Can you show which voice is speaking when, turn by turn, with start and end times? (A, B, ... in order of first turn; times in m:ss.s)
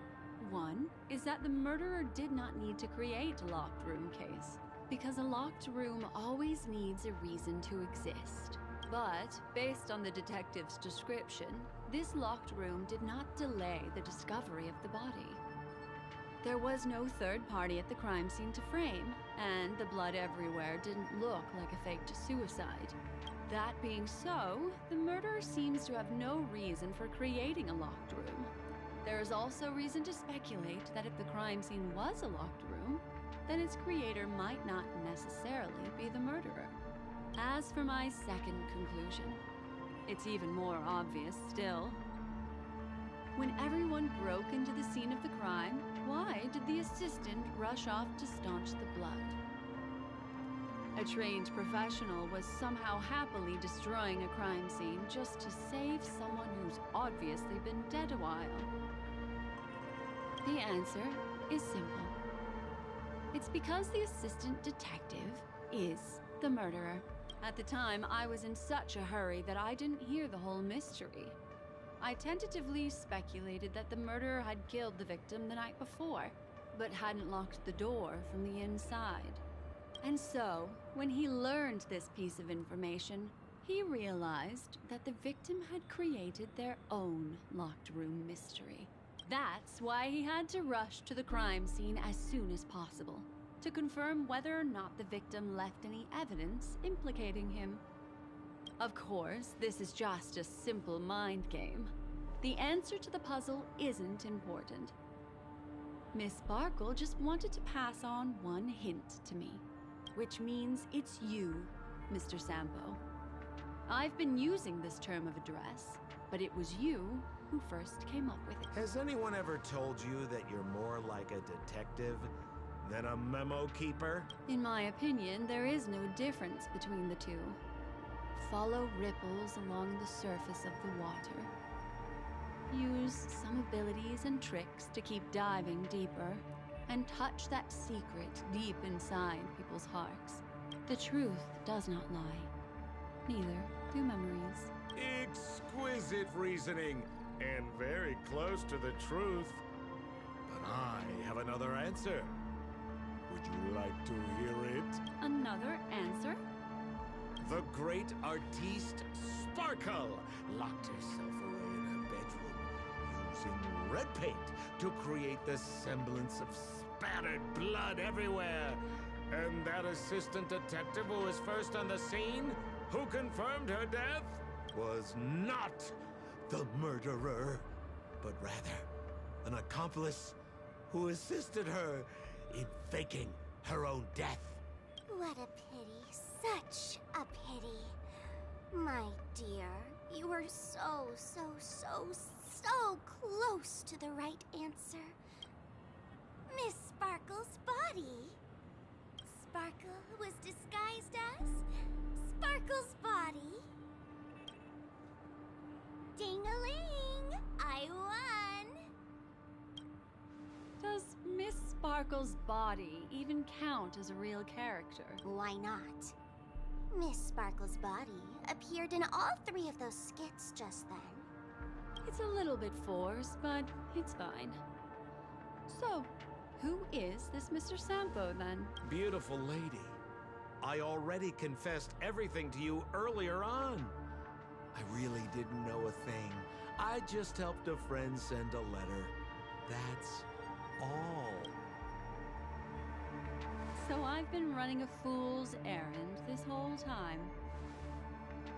0:00.4-0:15.4 A
0:16.4-0:28.5 A
0:29.0-0:36.8 A
0:37.4-0:39.4 A
0:40.0-0:42.0 A
0:43.4-0:49.4 A
0:51.0-0:58.7 A
1:00.4-1:02.1 A
1:03.3-1:11.4 A
1:12.0-1:19.4 A
1:20.0-1:37.8 A
1:38.8-1:44.9 A
1:46.1-1:53.0 A
1:53.9-1:58.7 A
1:58.7-2:04.3 B
2:04.5-2:07.6 A
2:08.4-2:11.5 A
2:12.7-2:22.5 A
2:23.2-2:24.7 A
2:25.0-2:29.6 B
2:30.5-2:32.3 B
2:33.3-2:35.0 B
2:35.2-2:36.4 A
2:37.4-2:55.9 B
2:56.5-2:57.6 B
2:58.2-2:58.9 B
2:59.4-3:00.4 B
3:00.9-3:04.6 B
3:05.1-3:08.0 C
3:08.7-3:15.2 C
3:16.5-3:18.4 C
3:19.2-3:23.6 C
3:26.2-3:28.8 C
3:30.8-3:35.2 A
3:35.2-3:36.1 C
3:36.9-3:41.3 C
3:42.0-3:44.6 A
3:45.7-3:48.7 A
3:48.8-3:50.0 B
3:50.6-3:54.0 B
3:54.7-3:59.1 B
3:59.6-4:00.3 B
4:00.8-4:01.6 B
4:03.7-4:07.3 A